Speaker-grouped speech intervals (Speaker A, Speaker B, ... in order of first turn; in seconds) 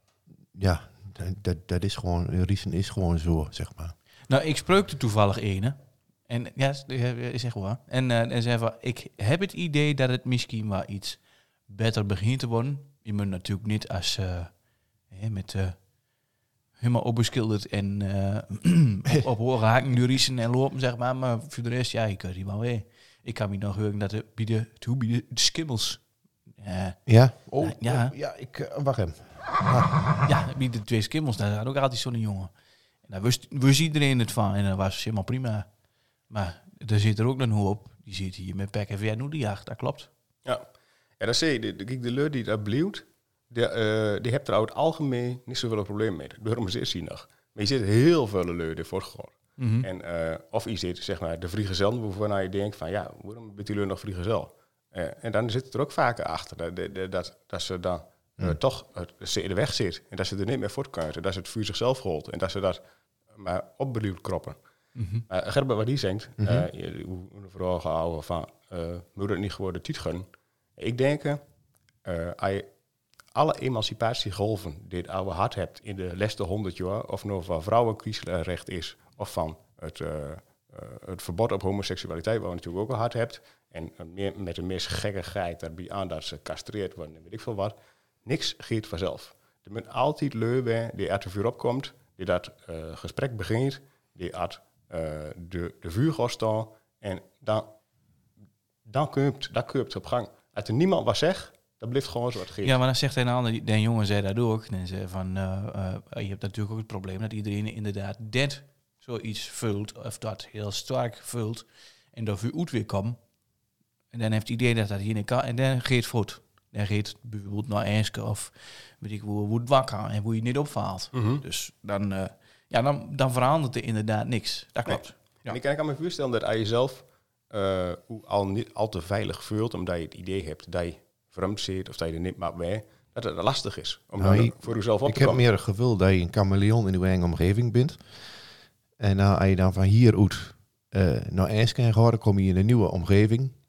Speaker A: 0.5-3.9, 27.1-30.3, 66.4-66.7, 134.2-138.0, 139.0-143.5
Speaker B: 4.3-5.8, 6.3-14.5, 15.1-15.8, 16.8-26.0, 26.6-27.0, 27.6-28.1, 30.2-32.5, 33.0-35.6, 36.3-40.1, 49.6-49.9, 65.0-65.2, 102.6-113.2, 114.1-125.6
Speaker C: 41.2-62.8, 63.3-64.6, 65.3-71.4, 72.0-72.7, 73.3-97.7, 98.8-102.8, 121.1-121.4, 124.9-135.4